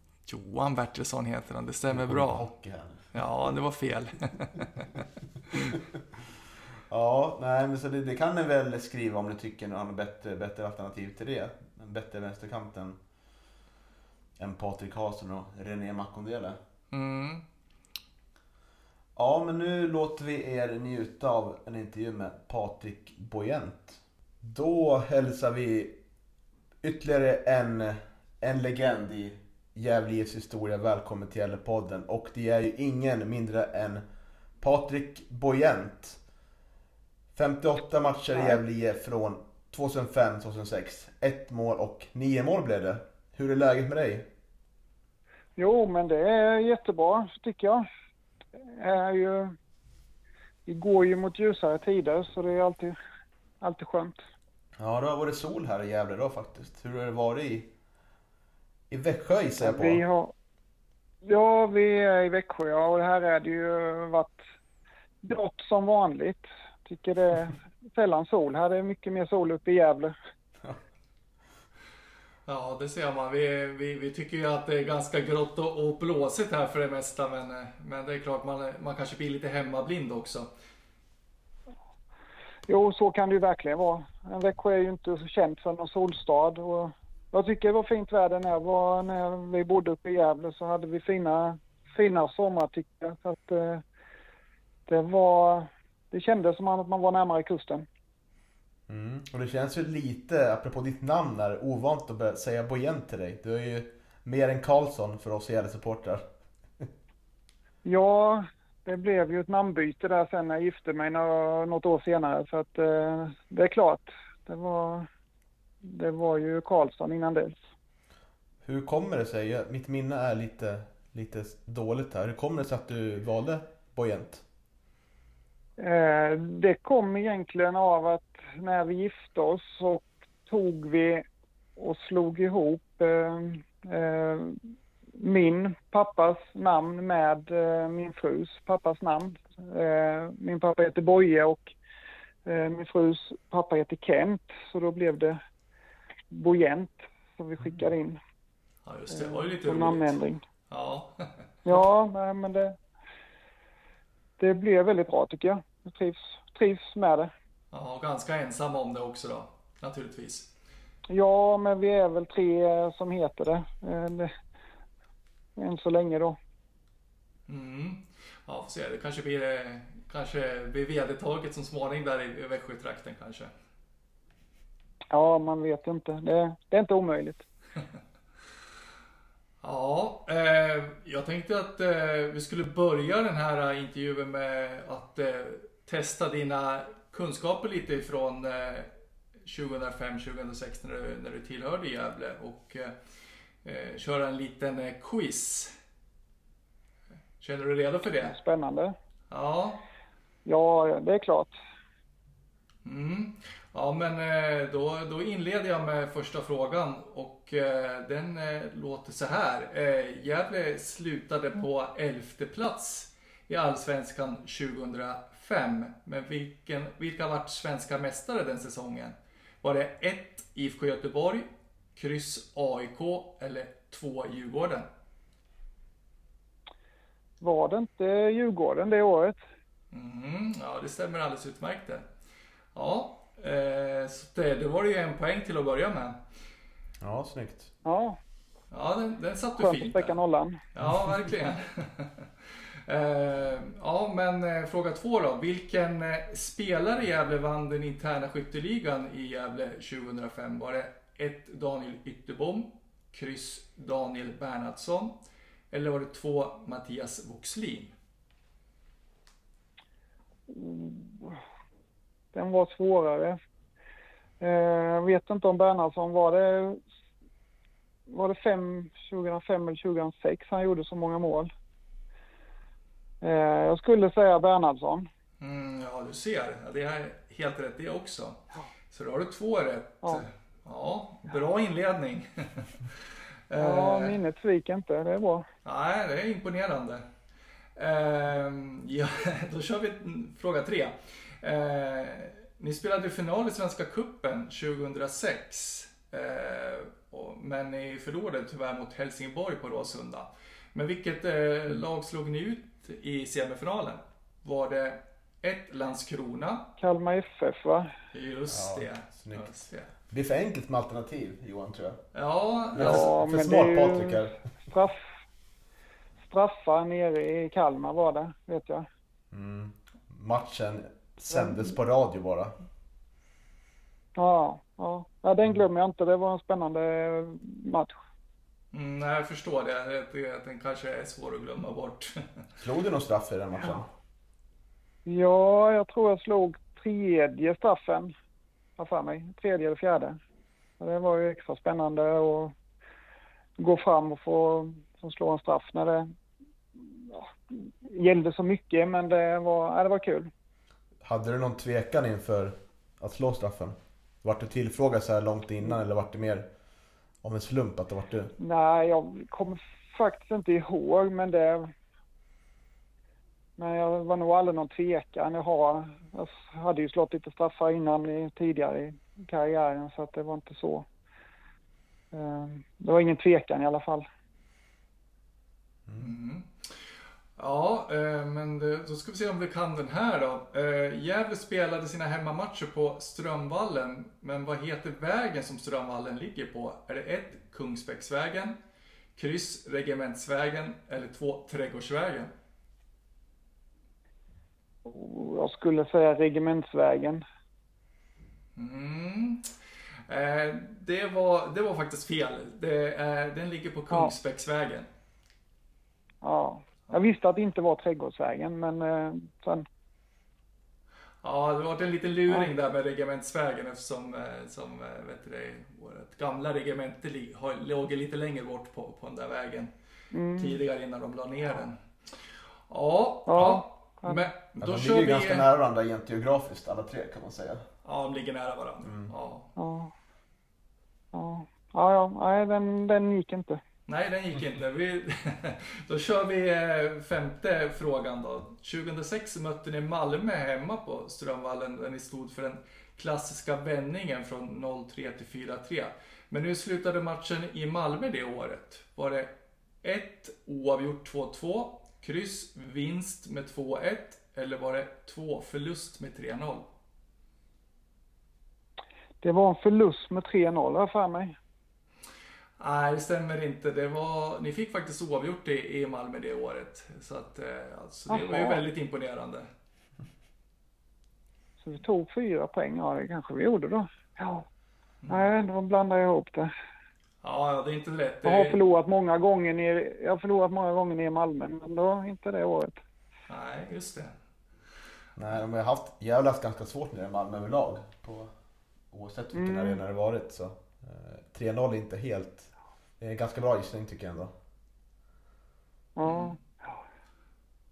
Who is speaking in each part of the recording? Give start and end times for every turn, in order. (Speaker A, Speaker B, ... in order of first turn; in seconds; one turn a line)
Speaker A: 0.3-2.5
Speaker B: 1.9-3.1
Speaker A: 3.1-5.0
Speaker B: 6.9-13.0
Speaker B: 14.4-16.6
Speaker A: 16.9-17.4
Speaker B: 19.1-26.0
Speaker B: 26.8-34.0
Speaker B: 34.6-36.2
Speaker B: 37.3-44.3
Speaker C: 45.6-47.8
Speaker C: 48.6-49.5
Speaker C: 50.6-53.0
Speaker C: 53.6-54.2
Speaker B: 54.8-57.7
Speaker B: 58.9-60.0
Speaker C: 59.6-60.3
Speaker C: 61.2-64.4
Speaker C: 65.2-70.1
Speaker A: 72.5-80.5
Speaker C: 82.7-93.8
Speaker C: 94.9-97.8
Speaker B: 98.9-106.2
Speaker C: 107.8-115.1
Speaker C: 115.8-117.6
Speaker B: 118.6-124.4
Speaker C: 125.8-131.2
Speaker C: 131.8-134.6
Speaker C: 135.2-141.7
Speaker C: 142.4-145.4
Speaker C: 146.3-148.2
Speaker A: 148.8-150.2
Speaker C: 149.1-150.4
Speaker A: 150.7-151.4
Speaker C: 151.7-152.7
Speaker C: 154.4-157.3
Speaker A: 157.7-160.5
Speaker C: 161.1-164.3
Speaker C: 165.6-166.4
Speaker A: 167.5-173.5
Speaker C: 175.1-177.4
Speaker A: 179.6-188.9
Speaker A: 189.4-192.9
Speaker A: 193.6-195.7
Speaker A: 197.4-198.3
Speaker C: 198.2-198.9
Speaker A: 199.3-199.8
Speaker C: 200.4-201.5
Speaker A: 202.8-224.9
Speaker C: 227.4-229.4
Speaker A: 229.9-232.1
Speaker A: 232.7-236.2
Speaker B: 237.0-237.7
Speaker C: 237.8-238.2
Speaker A: 238.7-240.2
Speaker C: 239.6-240.6
Speaker A: 240.7-255.1
Speaker A: 255.7-257.9
Speaker C: 260.5-261.4
Speaker C: 262.3-263.4
Speaker C: 264.4-266.8
Speaker C: 268.1-271.5
Speaker C: 273.2-275.1
Speaker A: 275.4-283.0
Speaker A: 283.5-284.2
Speaker C: 283.6-285.5
Speaker A: 285.6-287.0
Speaker A: 287.8-306.7
Speaker C: 306.8-307.9
Speaker A: 308.1-309.9
Speaker B: 308.5-312.0
Speaker A: 312.1-313.1
Speaker B: 312.7-314.4
Speaker C: 312.8-315.0
Speaker C: 316.3-318.9
Speaker B: 319.3-322.5
Speaker C: 324.1-327.9
Speaker A: 328.7-332.4
Speaker B: 332.6-333.9
Speaker C: 335.1-338.1
Speaker C: 338.8-340.2
Speaker C: 340.8-342.5
Speaker C: 343.6-346.1
Speaker C: 346.9-350.3
Speaker B: 351.0-356.4
Speaker B: 357.2-358.3
Speaker C: 358.4-361.7
Speaker C: 363.6-370.9
Speaker C: 372.1-374.1
Speaker B: 375.9-376.1
Speaker A: 376.0-388.6
Speaker A: 389.1-392.3
Speaker C: 394.8-397.2
Speaker A: 398.6-399.5
Speaker A: 400.1-404.9
Speaker C: 406.2-409.6
Speaker A: 411.2-419.7
Speaker C: 420.1-420.6
Speaker A: 420.4-425.5
Speaker C: 423.3-424.2
Speaker B: 424.6-427.6
Speaker A: 427.8-429.5
Speaker B: 428.8-429.1
Speaker C: 429.6-429.9
Speaker C: 431.1-433.6
Speaker A: 433.9-456.7
Speaker C: 459.2-461.4
Speaker A: 462.6-469.5
Speaker C: 468.1-468.6
Speaker C: 471.6-474.4
Speaker A: 475.0-475.3
Speaker C: 475.1-476.5
Speaker A: 477.2-478.6
Speaker C: 478.2-482.8
Speaker A: 483.3-484.1
Speaker B: 485.2-488.3
Speaker B: 488.9-494.3
Speaker C: 489.3-489.8
Speaker C: 495.9-496.7
Speaker A: 496.0-496.3